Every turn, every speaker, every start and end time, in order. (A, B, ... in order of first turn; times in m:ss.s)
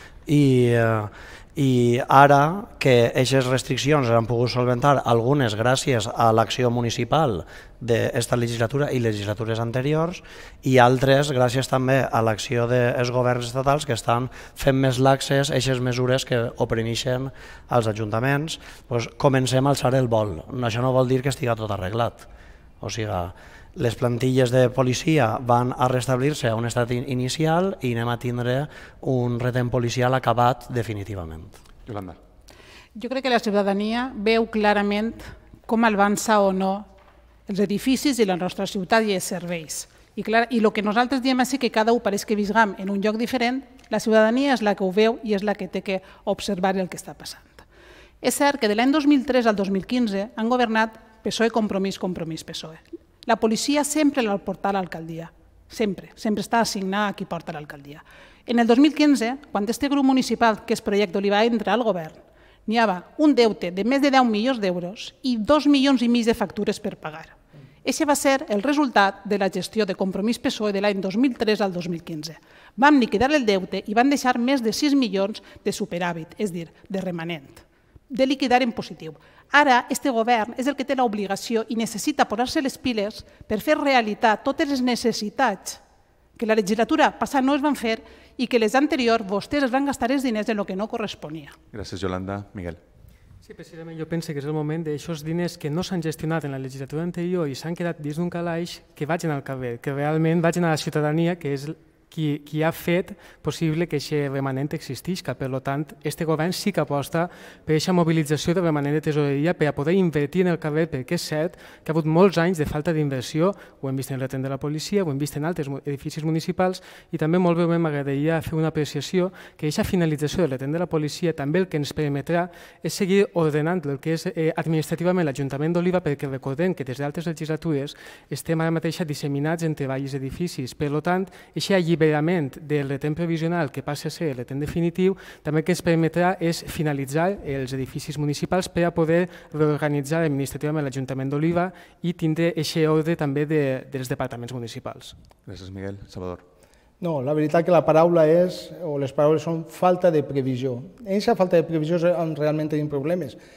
0:00.3-0:22.3 A
0:22.8-0:31.6 A
0:31.9-0:32.2 B
0:33.0-0:36.9 C
0:37.5-0:47.6 C
0:48.2-1:25.8 C
1:26.4-1:31.6 C
1:31.7-1:32.8 B
1:33.4-2:25.2 D
2:25.5-2:26.4 B
2:27.0-2:33.4 E